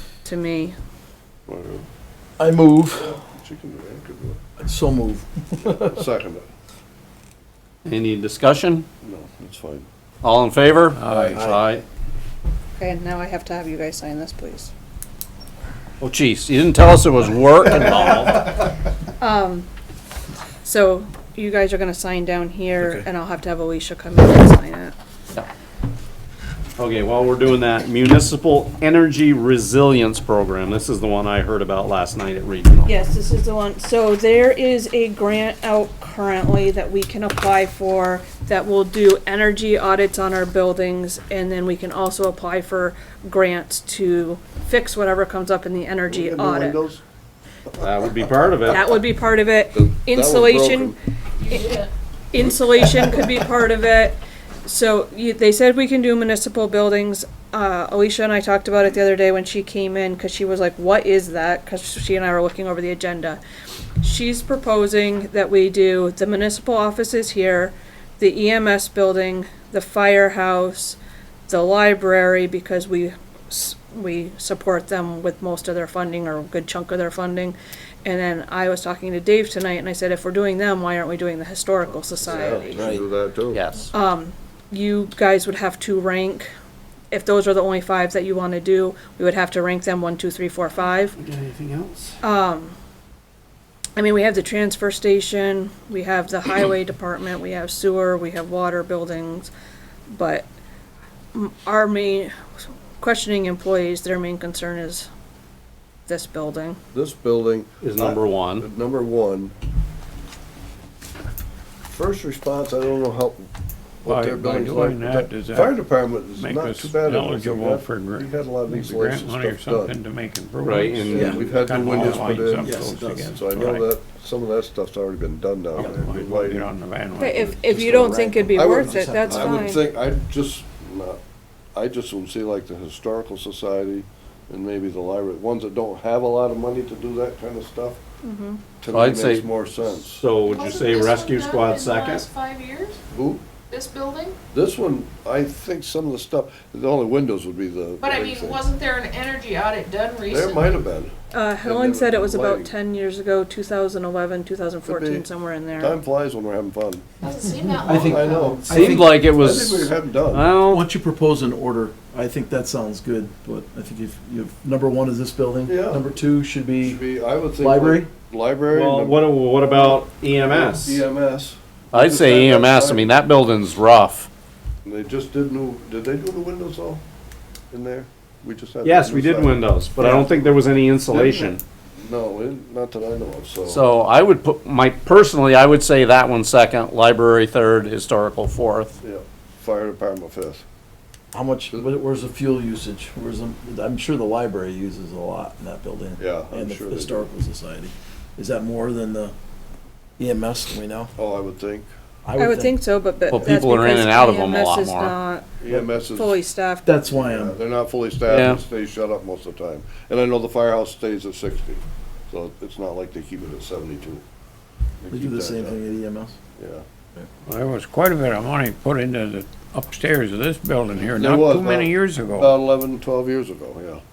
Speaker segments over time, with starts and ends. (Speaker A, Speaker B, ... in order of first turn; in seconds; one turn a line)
Speaker A: 0.2-0.8
Speaker B: 1.5-1.9
Speaker C: 2.4-3.2
Speaker B: 3.2-4.4
Speaker C: 4.6-6.1
Speaker B: 5.6-6.5
Speaker D: 7.8-8.9
Speaker B: 9.0-9.9
Speaker D: 10.2-11.8
Speaker E: 10.9-11.4
Speaker C: 11.3-11.6
Speaker A: 12.8-14.7
Speaker D: 16.0-18.6
Speaker A: 19.2-19.7
Speaker A: 20.6-24.9
Speaker C: 22.8-23.1
Speaker D: 26.8-32.9
Speaker A: 32.9-46.8
Speaker B: 46.1-47.0
Speaker D: 47.8-48.9
Speaker A: 48.7-51.0
Speaker B: 49.7-51.0
Speaker F: 51.5-51.9
Speaker A: 51.5-51.8
Speaker A: 52.3-63.4
Speaker A: 64.0-82.9
Speaker B: 82.2-83.6
Speaker C: 82.6-83.0
Speaker D: 83.5-83.9
Speaker A: 83.9-86.5
Speaker A: 87.1-91.2
Speaker D: 91.2-92.2
Speaker A: 92.2-92.8
Speaker A: 94.0-99.5
Speaker A: 100.1-100.5
Speaker A: 101.3-102.3
Speaker A: 103.0-105.1
Speaker A: 106.1-106.8
Speaker B: 106.9-109.5
Speaker D: 107.8-108.7
Speaker B: 111.9-113.5
Speaker B: 114.0-120.0
Speaker E: 114.0-123.9
Speaker D: 120.6-121.3
Speaker B: 121.1-122.7
Speaker C: 121.1-123.4
Speaker B: 123.3-126.7
Speaker E: 125.8-127.6
Speaker A: 127.2-129.8
Speaker C: 127.6-129.9
Speaker B: 128.6-131.2
Speaker B: 131.7-138.0
Speaker A: 138.2-138.6
Speaker B: 138.8-140.2
Speaker D: 138.9-142.3
Speaker F: 140.5-143.0
Speaker B: 143.1-143.5
Speaker F: 143.7-144.4
Speaker B: 144.5-148.7
Speaker F: 148.0-150.8
Speaker B: 150.3-152.7
Speaker A: 151.3-156.0
Speaker B: 154.9-155.2
Speaker B: 155.8-157.1
Speaker F: 157.2-158.9
Speaker C: 157.8-159.2
Speaker B: 157.9-160.5
Speaker D: 158.7-160.8
Speaker C: 160.7-167.0
Speaker B: 165.7-166.1
Speaker B: 166.8-173.1
Speaker C: 167.6-168.1
Speaker D: 168.7-171.0
Speaker D: 171.9-174.3
Speaker B: 174.8-177.0
Speaker B: 177.7-180.2
Speaker D: 178.8-181.6
Speaker C: 180.0-180.3
Speaker B: 181.1-183.8
Speaker D: 183.7-189.0
Speaker B: 189.0-190.6
Speaker C: 191.3-199.3
Speaker B: 196.2-197.3
Speaker C: 200.2-201.1
Speaker B: 201.2-201.9
Speaker C: 202.2-202.8
Speaker A: 202.4-205.5
Speaker D: 203.3-205.2
Speaker B: 203.3-203.6
Speaker B: 205.6-206.4
Speaker A: 206.1-206.9
Speaker C: 206.8-207.6
Speaker B: 207.1-214.2
Speaker D: 208.3-208.6
Speaker B: 215.0-215.8
Speaker C: 215.1-216.4
Speaker B: 216.6-216.8
Speaker E: 217.5-222.6
Speaker B: 221.2-224.0